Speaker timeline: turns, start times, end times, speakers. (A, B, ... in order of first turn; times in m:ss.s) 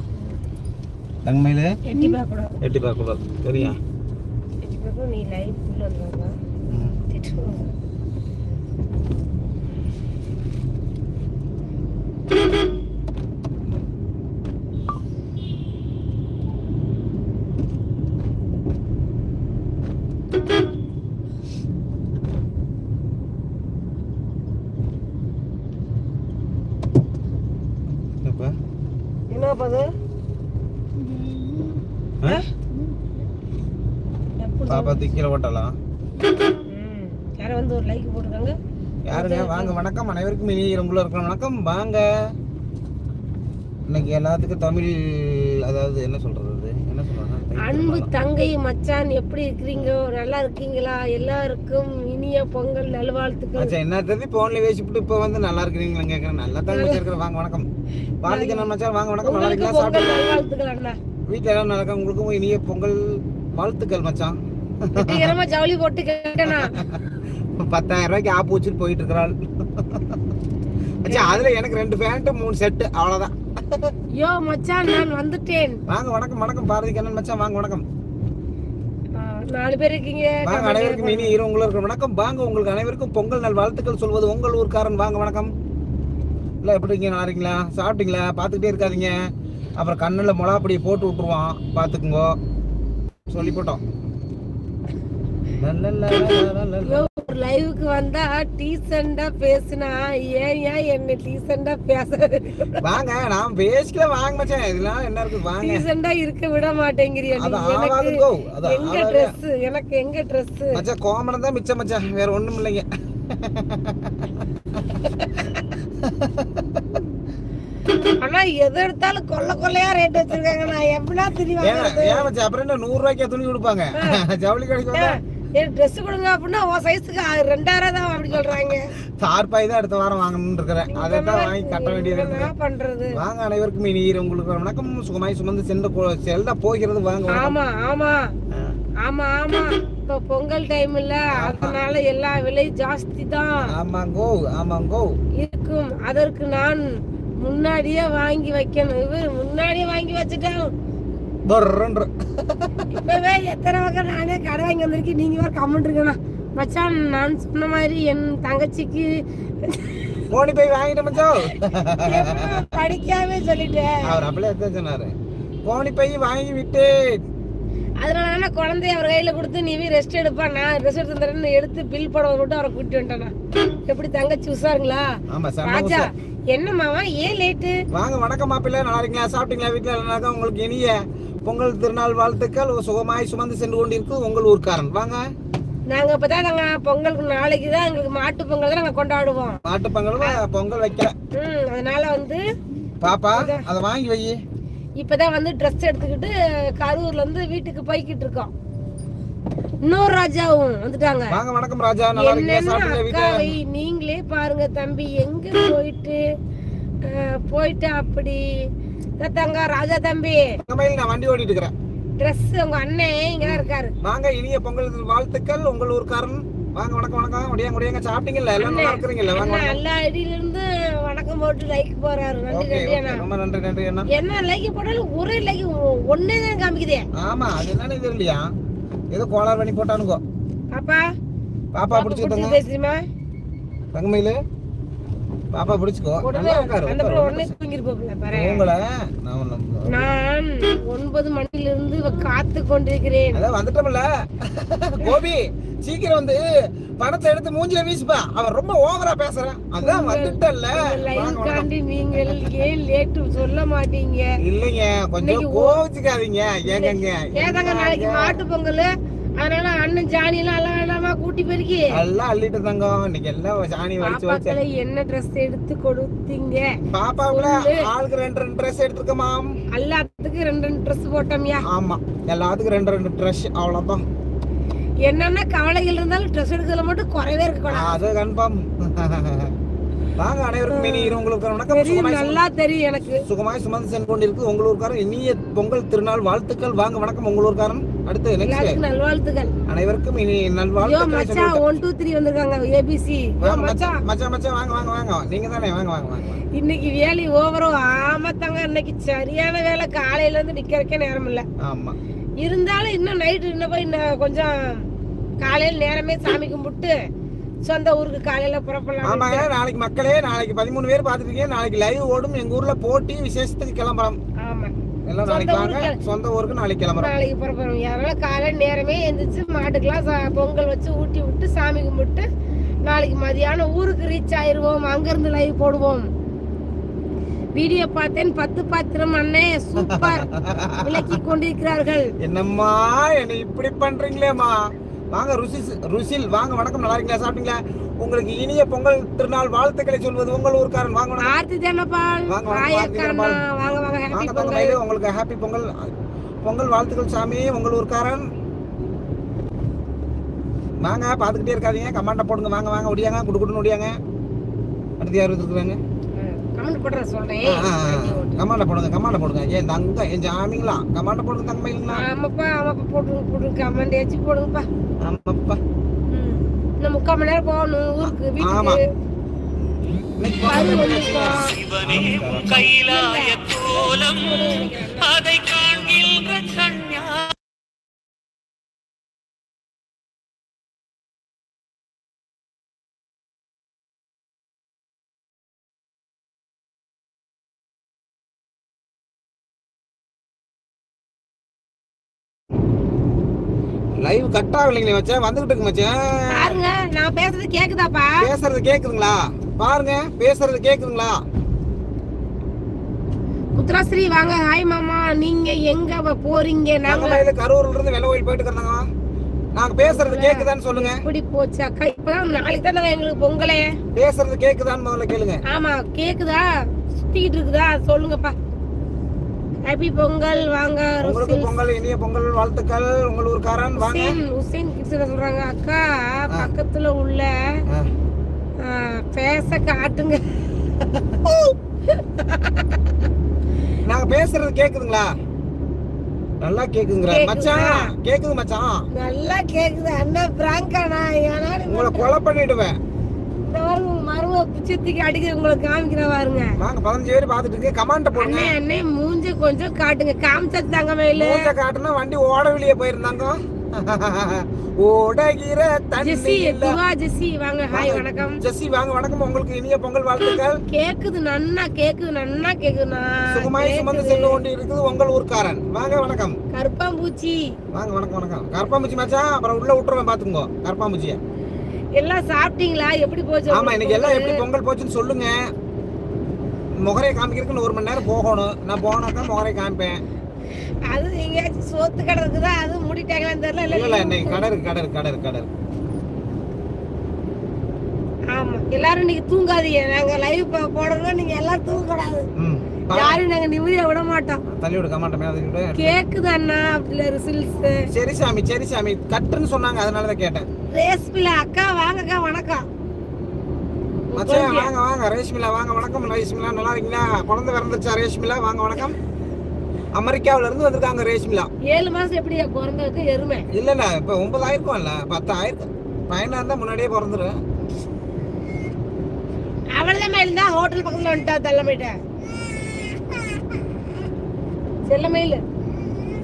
0:01.2-0:01.8 A
0:01.8-0:02.6 B
0:02.6-0:03.8 A
0:04.6-0:06.3 B
0:06.7-0:07.0 A
0:07.1-0:07.7 B
0:28.2-0:28.5 A
0:29.3-0:29.8 B
0:34.4-0:35.0 B
0:34.7-0:35.8 A
0:36.6-0:38.6 B
0:39.1-0:42.1 A
0:39.1-0:39.8 B
0:43.9-0:48.1 A
0:47.6-0:53.7 B
0:53.6-0:57.7 A
0:56.7-0:57.0 B
0:58.2-1:00.2 A
0:58.3-0:58.7 B
0:59.2-1:01.0 B
1:01.3-1:05.3 A
1:05.0-1:06.8 B
1:06.5-1:07.0 A
1:07.6-1:10.2 A
1:11.0-1:13.9 A
1:11.1-1:11.5 B
1:14.2-1:15.8 B
1:15.9-1:17.8 A
1:19.2-1:21.3 B
1:20.4-1:25.5 A
1:26.6-1:29.2 A
1:29.8-1:32.4 A
1:33.3-1:33.8 A
1:35.6-1:37.1 A
1:36.8-1:42.8 B
1:42.8-1:45.8 A
1:45.6-1:50.8 B
1:47.4-1:49.3 A
1:50.7-1:54.1 A
1:54.8-1:56.8 A
1:57.9-2:02.3 B
2:01.6-2:05.2 A
2:03.9-2:04.2 B
2:04.9-2:08.9 B
2:09.2-2:12.5 A
2:10.9-2:13.1 B
2:13.1-2:17.5 A
2:17.3-2:18.3 B
2:19.0-2:23.7 B
2:21.4-2:21.8 A
2:23.6-2:25.1 A
2:25.4-2:26.9 B
2:27.4-2:30.7 B
2:31.4-2:32.9 A
2:32.9-2:40.1 B
2:40.3-2:42.6 A
2:42.0-2:44.0 B
2:44.0-2:45.1 A
2:45.6-2:47.2 A
2:48.0-2:55.1 B
2:55.3-2:56.1 A
2:55.6-2:57.8 B
2:57.9-3:05.2 A
3:05.9-3:09.6 B
3:09.6-3:11.1 A
3:11.4-3:12.4 B
3:13.0-3:14.4 A
3:13.3-3:13.6 B
3:15.0-3:18.5 B
3:19.8-3:21.4 B
3:21.3-3:23.6 A
3:22.2-3:26.2 B
3:27.0-3:28.5 B
3:29.2-3:30.5 B
3:30.6-3:31.7 A
3:32.2-3:33.9 B
3:33.4-3:39.8 A
3:38.6-3:43.2 B
3:42.5-3:44.1 A
3:44.1-3:47.1 B
3:47.1-3:48.4 A
3:49.1-3:50.2 A
3:50.7-3:51.0 B
3:51.7-3:52.6 A
3:51.9-3:53.0 B
3:53.9-3:54.4 A
3:55.5-3:57.5 A
3:56.2-3:58.7 B
3:58.3-4:00.0 A
3:59.9-4:03.4 B
4:03.3-4:06.4 A
4:07.0-4:11.7 A
4:09.8-4:14.3 B
4:14.4-4:18.3 A
4:15.2-4:15.8 B
4:16.6-4:21.9 B
4:21.9-4:24.6 A
4:24.0-4:26.8 B
4:26.8-4:29.5 A
4:27.3-4:27.9 B
4:29.7-4:31.6 B
4:31.6-4:34.0 A
4:35.0-4:38.0 B
4:37.7-4:39.5 A
4:40.2-4:42.4 A
4:40.7-4:43.2 B
4:43.2-4:48.8 A
4:48.4-4:49.5 B
4:49.7-4:51.6 A
4:50.8-4:54.0 B
4:53.4-4:56.4 A
4:56.5-5:01.4 B
5:01.6-5:02.0 A
5:02.4-5:04.9 B
5:05.4-5:06.9 B
5:07.6-5:09.4 B
5:09.0-5:14.2 A
5:14.4-5:14.7 B
5:15.1-5:17.1 A
5:15.2-5:16.0 B
5:17.0-5:22.3 B
5:22.8-5:26.1 B
5:27.5-5:30.2 B
5:29.8-5:31.2 A
5:30.8-5:32.1 B
5:32.2-5:41.3 A
5:41.2-5:44.8 B
5:42.3-5:43.4 A
5:44.1-5:45.7 A
5:46.4-5:48.2 A
5:50.8-5:53.9 A
5:55.0-5:55.8 A
5:56.2-5:58.4 B
5:57.4-6:02.0 A
6:01.9-6:04.7 B
6:05.0-6:05.6 A
6:06.1-6:08.8 B
6:08.0-6:08.8 A
6:10.2-6:12.7 A
6:10.4-6:11.6 B
6:12.2-6:14.4 C
6:12.4-6:15.3 B
6:15.1-6:17.3 C
6:34.0-6:36.6 A
6:36.3-6:38.3 B
6:38.2-6:41.2 A
6:43.6-6:47.2 B
6:46.8-6:48.8 A
6:49.5-6:51.0 A
6:49.8-6:53.7 B
6:53.9-6:55.4 A
6:55.5-6:56.4 B
6:57.0-6:58.4 B
6:59.6-7:01.6 B
7:01.0-7:04.1 A
7:03.8-7:07.3 B
7:08.6-7:10.2 B
7:11.5-7:12.7 B
7:13.8-7:15.1 A
7:16.4-7:18.8 A
7:17.1-7:17.9 B
7:19.0-7:22.1 B
7:21.6-7:22.8 A
7:23.5-7:26.5 B
7:26.6-7:28.5 A
7:28.2-7:31.5 B
7:31.2-7:36.8 A
7:36.0-7:38.4 B
7:37.7-7:40.6 A
7:40.7-7:44.4 B
7:43.3-7:46.4 A
7:46.5-7:47.5 B
7:47.7-7:51.2 A
7:52.0-7:54.4 B
7:53.5-7:55.3 A
7:56.8-8:00.0 A
8:00.9-8:04.5 B
8:03.7-8:05.5 A
8:08.3-8:12.3 B
8:12.4-8:13.2 A
8:12.9-8:14.4 B
8:14.5-8:16.0 A
8:15.7-8:17.8 B
8:17.9-8:20.4 A
8:20.7-8:22.6 B
8:24.1-8:24.7 B
8:24.2-8:29.0 A
8:29.9-8:31.5 A
8:31.7-8:33.4 B
8:33.5-8:37.3 A
8:39.7-8:41.9 B
8:44.9-8:45.4 B